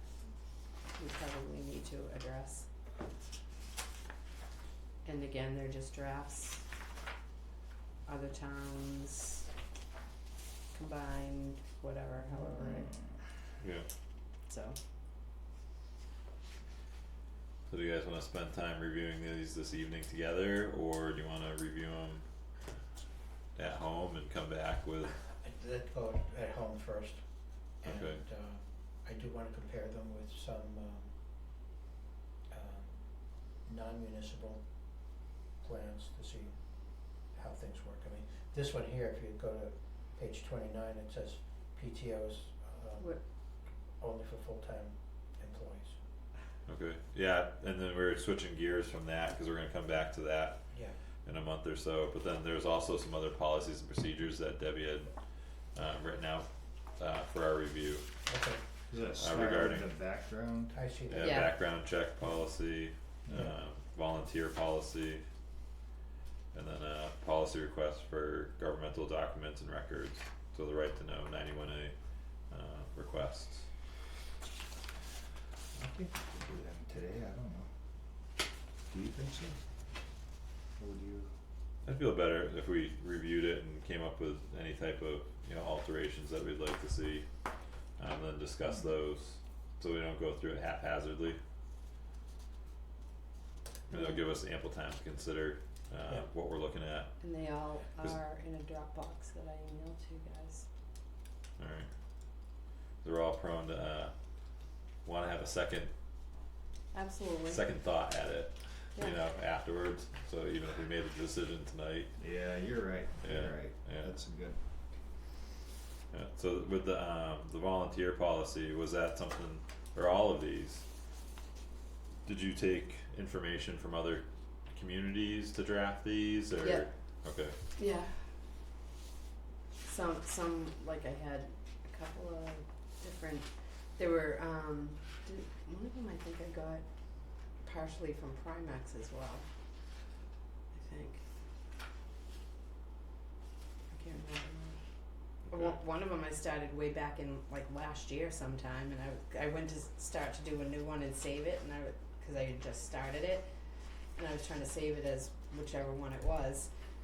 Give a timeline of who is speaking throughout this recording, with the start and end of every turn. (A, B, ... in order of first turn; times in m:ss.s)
0:00.9-0:02.7 A
0:05.0-0:06.6 A
0:08.0-0:09.5 A
0:10.7-0:12.9 A
0:12.6-0:12.9 B
0:13.6-0:13.9 C
0:14.4-0:14.8 A
0:17.7-0:22.2 C
0:23.5-0:25.2 C
0:25.4-0:31.2 D
0:27.8-0:28.2 C
0:32.5-0:46.0 D
0:46.6-0:55.1 C
0:55.7-0:58.0 C
0:58.2-0:58.6 D
0:58.9-1:00.8 B
0:59.2-0:59.9 C
1:00.7-1:01.5 D
1:01.1-1:05.2 C
1:01.2-1:01.5 A
1:03.3-1:03.6 B
1:06.5-1:11.9 C
1:12.5-1:13.7 C
1:15.7-1:17.7 B
1:18.8-1:19.6 B
1:20.8-1:21.3 B
1:21.8-1:27.2 C
1:28.0-1:31.4 C
1:33.9-1:37.2 C
1:33.9-1:34.2 A
1:37.2-1:40.6 A
1:41.6-1:41.9 C
1:43.0-1:45.9 C
1:46.9-1:47.6 A
1:47.5-1:52.1 C
1:52.2-1:54.6 B
1:53.2-1:54.1 C
1:56.1-2:00.8 C
2:02.2-2:07.6 C
2:06.6-2:06.9 A
2:07.7-2:08.3 A
2:09.8-2:19.4 A
2:20.7-2:21.2 A
2:23.9-2:24.8 A
2:25.5-2:25.8 C
2:25.5-2:33.5 A
2:34.2-2:36.7 A